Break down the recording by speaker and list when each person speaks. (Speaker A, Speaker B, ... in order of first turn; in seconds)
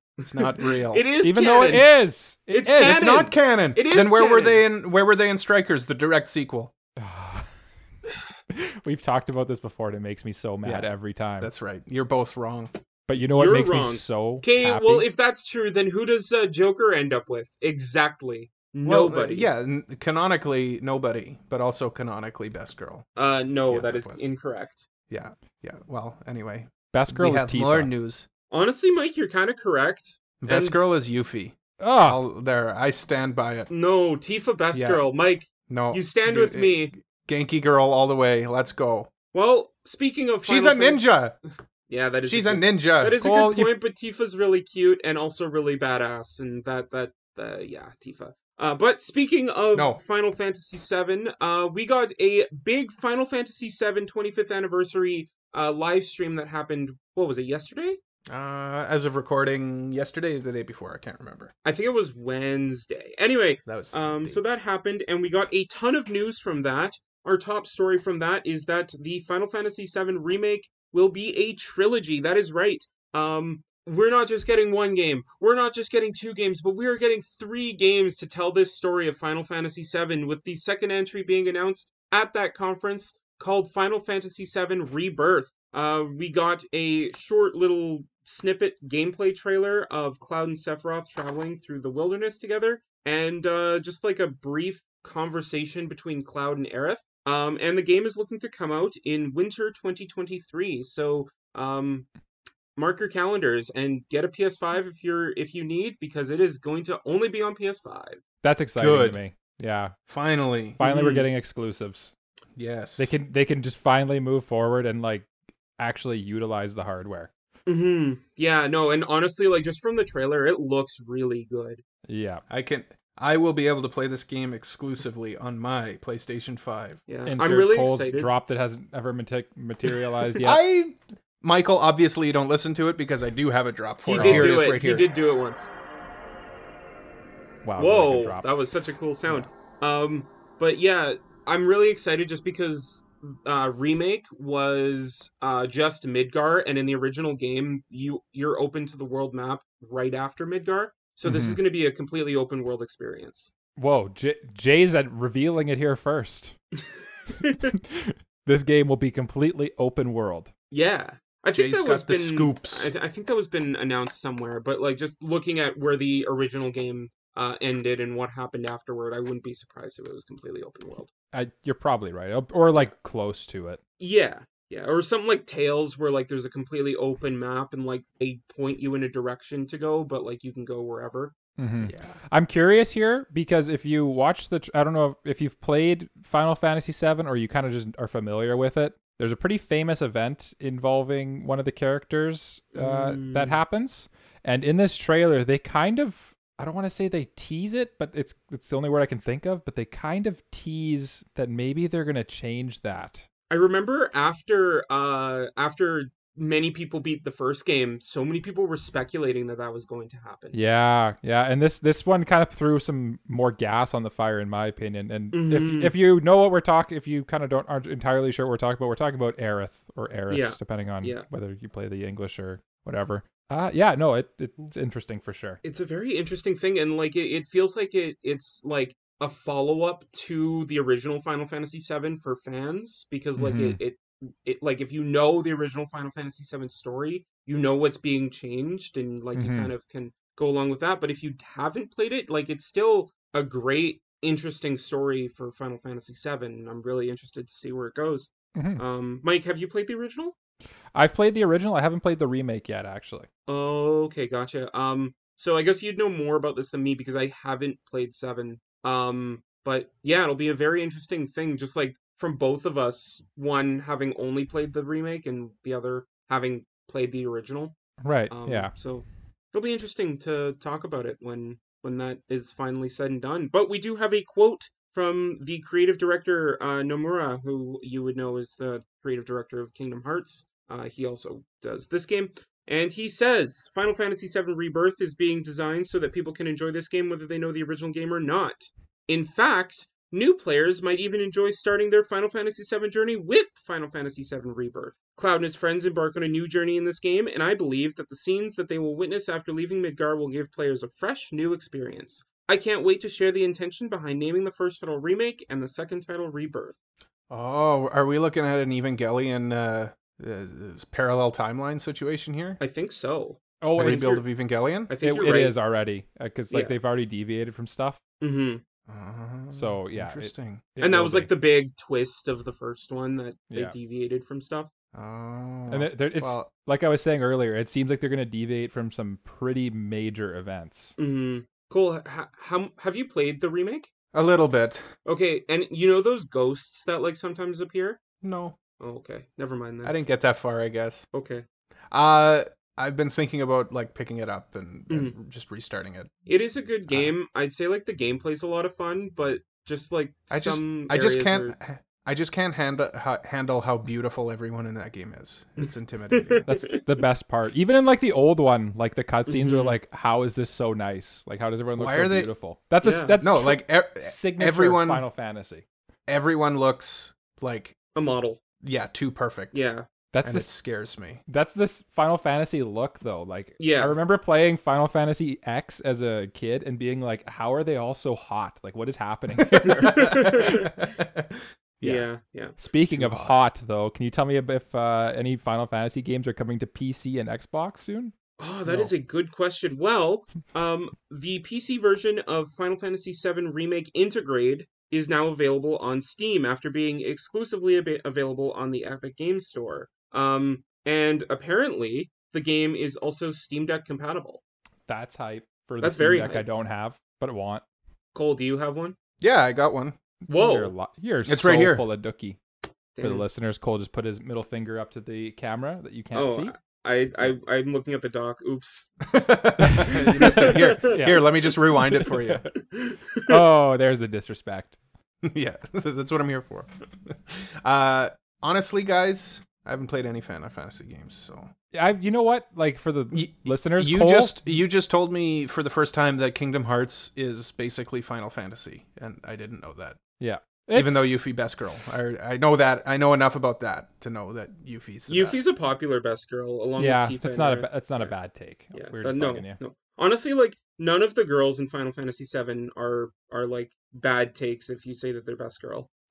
Speaker A: 0.2-1.1, 2.8-6.7, 10.6-12.7, 18.9-23.1, 23.7-24.2, 25.1-28.3, 30.4-33.7, 34.7-35.0, 35.7-39.1, 40.4-41.4, 42.3-43.2, 49.7-50.0, 58.3-61.5, 63.7-64.4, 108.8-109.2, 110.1-110.8, 112.6-113.1, 122.5-127.0, 130.4-135.1, 161.6-162.9, 181.8-182.2, 307.3-312.6, 313.8-314.9, 318.9-320.6, 324.9-326.5, 334.1-334.9, 338.2-338.6, 339.8-341.1, 341.9-346.1, 346.9-347.1, 350.3-356.5, 361.8-362.3, 363.2-365.1, 366.1-367.8, 368.6-369.6, 370.2-371.2, 379.4-382.1, 382.9-383.4, 409.2-410.0, 411.3-411.9, 419.1-422.5, 425.2-431.5, 433.1-440.0, 440.7-445.4
Speaker B: 0.4-1.9, 2.5-4.7, 13.3-19.5, 23.2-24.9, 28.5-30.8, 33.7-36.9, 39.3-41.1, 41.9-58.0, 61.6-102.1, 102.8-108.2, 110.8-111.3, 117.7-121.8, 127.1-128.3, 134.1-135.7, 137.8-153.5, 157.3-157.7, 160.7-171.1, 174.0-181.3, 192.8-193.6, 203.5-210.6, 215.3-215.9, 220.3-221.2, 225.6-250.3, 253.5-267.8, 268.3-306.8, 312.6-314.2, 314.9-315.6, 318.2-318.6, 320.8-324.7, 331.0-333.9, 335.1-338.0, 338.8-340.0, 341.1-341.4, 344.9-345.1, 346.3-351.6, 356.1-356.8, 359.3-359.8, 362.8-363.2, 367.9-368.4, 369.5-369.9, 373.6-374.0, 379.7-380.7, 381.8-382.6, 388.4-404.4, 405.8-406.4, 408.1-409.0, 410.3-410.7, 413.0-413.2, 416.1-418.9, 420.1-421.0, 422.6-423.4, 445.1-448.1, 448.7-455.9
Speaker C: 1.2-3.2, 7.0-7.5, 8.5-11.5, 13.1-15.1, 26.9-27.9, 31.8-32.2, 43.2-43.7, 108.4-109.9, 110.8-112.1, 113.0-117.3, 122.1-122.4, 127.3-130.6, 134.1-134.6, 137.6-138.5, 151.2-151.6, 153.8-156.6, 157.7-160.5, 171.3-173.8, 181.6-203.3, 210.5-225.6, 233.4-233.8, 239.3-239.7, 248.6-248.8, 250.9-253.3, 268.0-268.7, 313.6-314.2, 315.0-318.0, 319.5-321.3, 323.5-323.8, 325.7-330.9, 356.5-365.6, 370.1-370.5, 371.3-380.6, 382.6-388.1, 404.9-407.6, 410.2-412.4, 413.0-416.5, 419.6-422.4, 423.3-424.8, 431.7-434.6, 440.2-441.2, 446.8-449.6